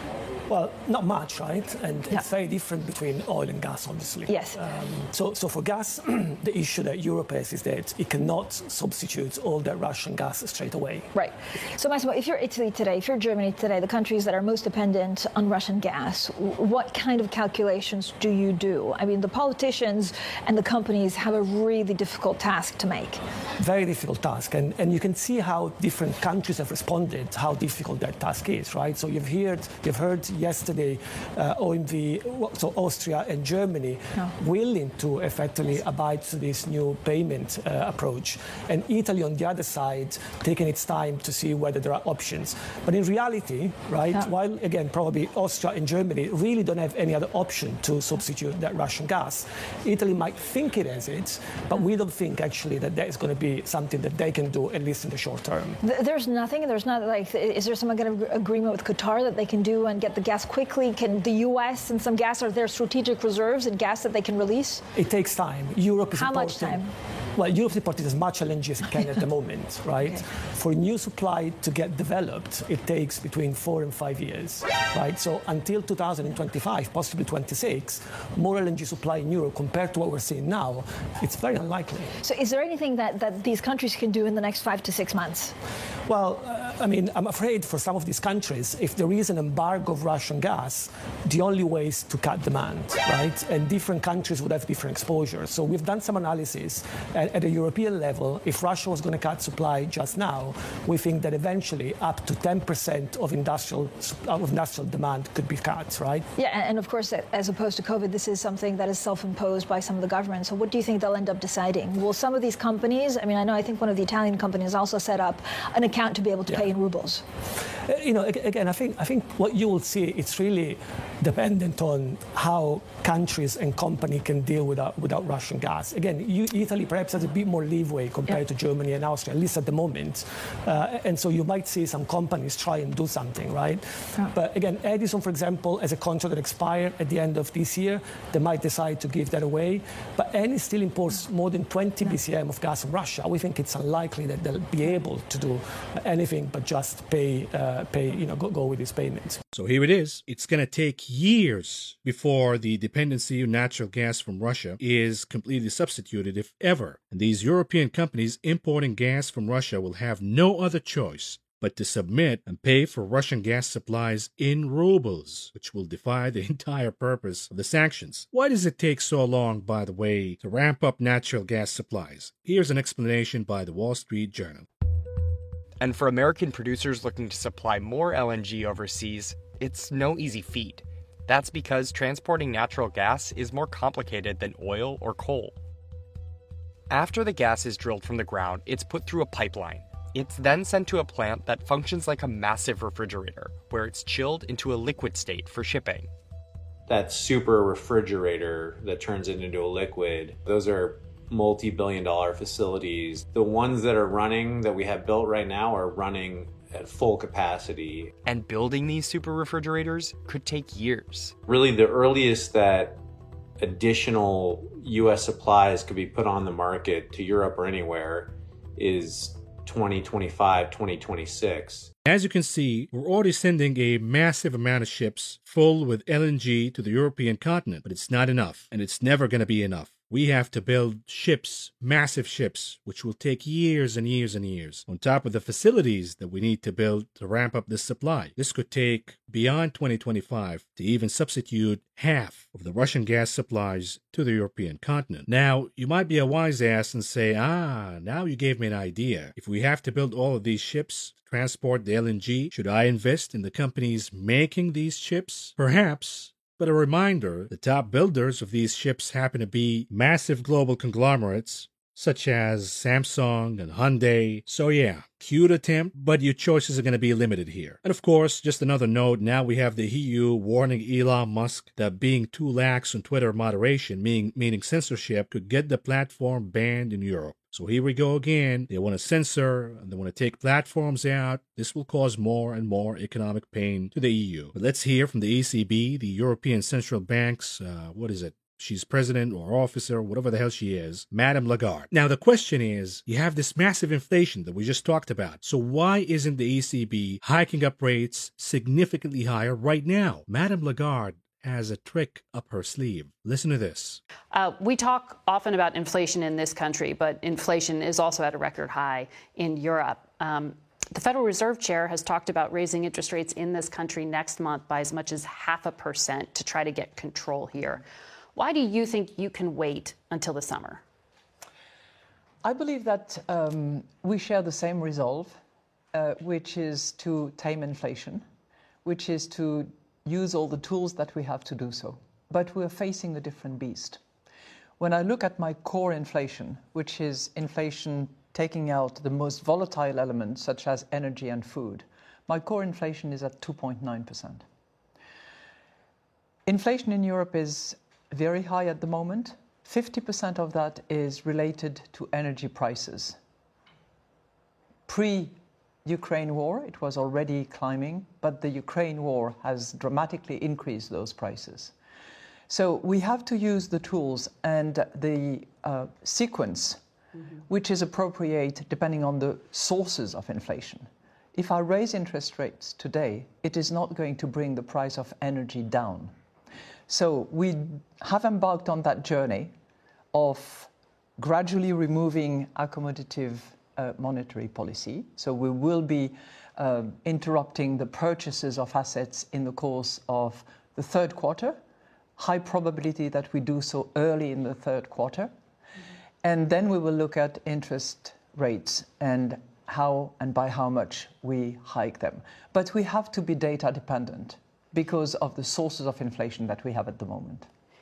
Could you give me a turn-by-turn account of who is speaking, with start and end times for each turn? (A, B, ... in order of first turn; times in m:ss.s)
0:00.5-0:11.1 A
0:04.3-0:04.6 B
0:11.1-0:23.2 B
0:23.6-0:55.8 A
0:55.8-1:04.8 B
1:04.9-1:06.8 A
1:06.1-1:06.9 B
1:07.3-1:22.1 A
1:22.2-1:25.5 B
1:26.1-1:46.2 A
1:46.4-1:57.2 B
1:57.8-2:29.4 A
2:29.5-2:54.7 C
2:55.8-3:05.6 D
3:06.9-3:16.1 D
3:16.9-3:28.1 E
3:28.2-3:31.3 D
3:31.5-3:33.0 E
3:33.6-3:41.9 E
3:42.0-5:04.0 C
5:04.3-5:17.8 F
5:18.3-5:20.8 F
5:22.4-5:25.4 G
5:25.9-5:28.2 G
5:28.8-5:34.0 G
5:34.8-5:44.4 G
5:46.4-5:53.2 G
5:54.9-6:01.7 G
6:02.5-6:06.8 G
6:07.5-6:16.1 G
6:16.9-6:19.5 G
6:20.1-6:31.6 G
6:32.2-6:35.3 G
6:36.2-6:47.4 G